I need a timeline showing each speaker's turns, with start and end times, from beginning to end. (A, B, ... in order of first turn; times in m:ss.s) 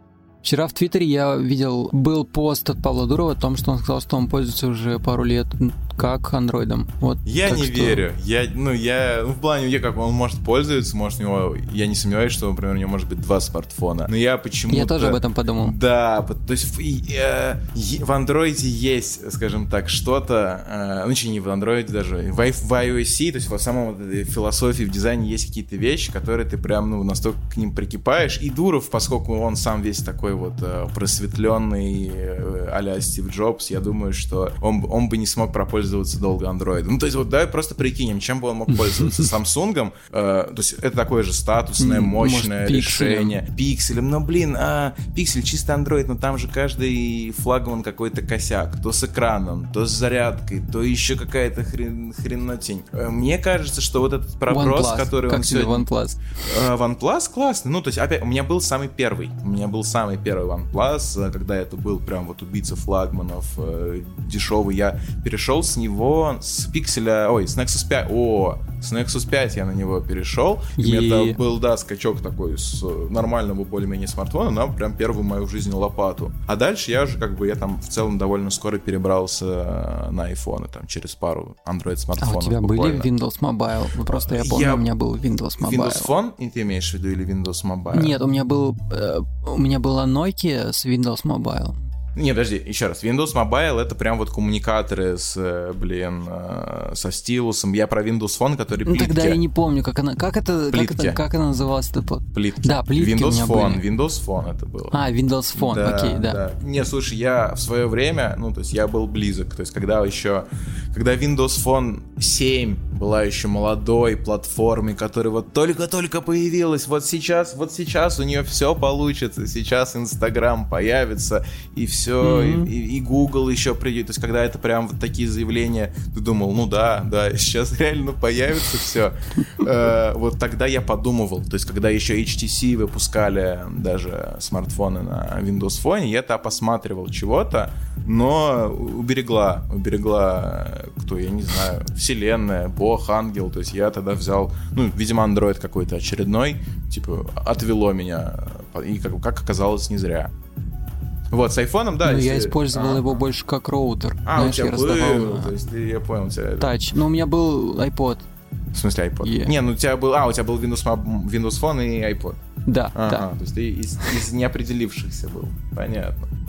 0:00.4-0:08.0 A
0:07.2-0:55.9 B
0:14.7-0:15.8 A
0:38.8-0:39.3 A
0:41.8-0:43.4 A
0:54.5-0:56.2 A
0:56.4-1:23.1 B
1:10.8-1:11.4 A
1:22.2-1:26.1 A
1:24.1-1:24.9 B
1:25.6-1:28.2 B
1:27.9-1:31.8 A
1:32.2-1:39.4 B
1:38.9-1:43.8 A
1:40.7-1:41.2 B
1:42.3-1:45.0 B
1:44.9-1:46.4 A
1:45.5-2:30.3 B
2:02.2-2:02.7 A
2:31.3-2:33.2 B
2:32.0-2:35.5 A
2:34.2-2:36.7 B
2:36.6-2:38.2 A
2:38.7-2:42.4 B
2:39.2-2:39.6 A
2:42.7-2:43.3 A
2:43.0-2:46.3 B